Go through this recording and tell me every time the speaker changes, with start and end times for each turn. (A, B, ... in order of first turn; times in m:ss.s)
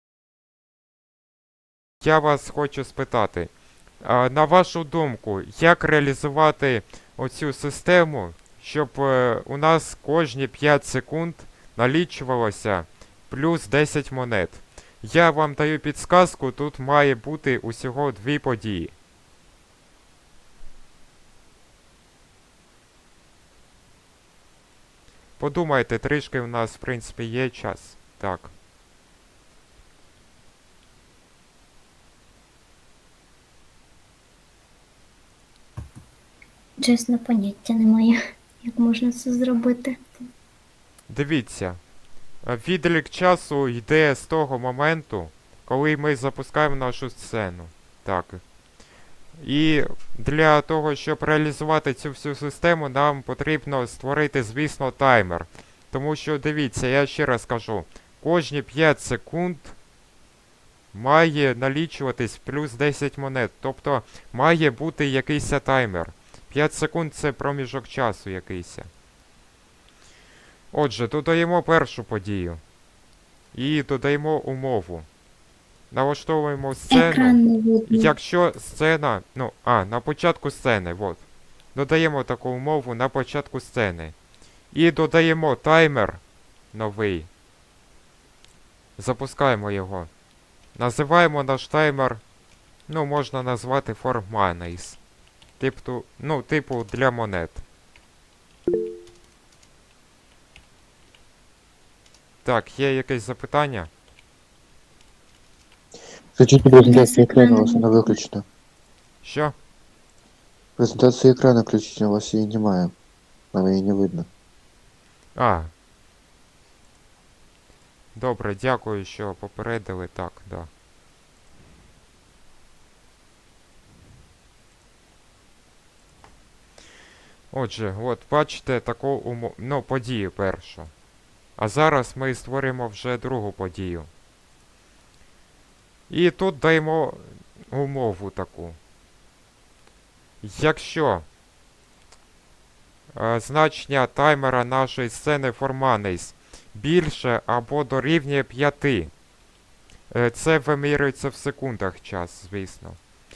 0:02.0-0:18.9 A
0:25.4-0:28.5 A
0:36.8-0:40.0 B
0:41.1-0:41.8 A
0:42.4-0:48.4 A
0:49.4-0:59.8 A
1:00.9-1:08.9 A
1:10.7-1:12.6 A
1:13.5-1:15.1 A
1:15.9-1:24.2 A
1:16.9-1:18.1 B
1:24.7-1:26.2 A
1:26.7-1:27.3 A
1:29.0-1:30.1 A
1:30.8-1:32.2 A
1:32.9-1:35.0 A
1:35.6-1:37.6 A
1:42.4-1:43.9 A
1:46.4-1:48.4 C
1:46.7-1:48.2 B
1:49.2-1:49.6 A
1:50.8-1:52.9 C
1:53.5-1:54.3 C
1:55.4-1:55.7 A
1:58.2-2:00.7 A
2:07.5-2:10.9 A
2:11.6-2:14.1 A
2:16.1-2:18.8 A
2:20.4-2:21.3 A
2:23.1-2:29.1 A
2:30.1-2:33.0 A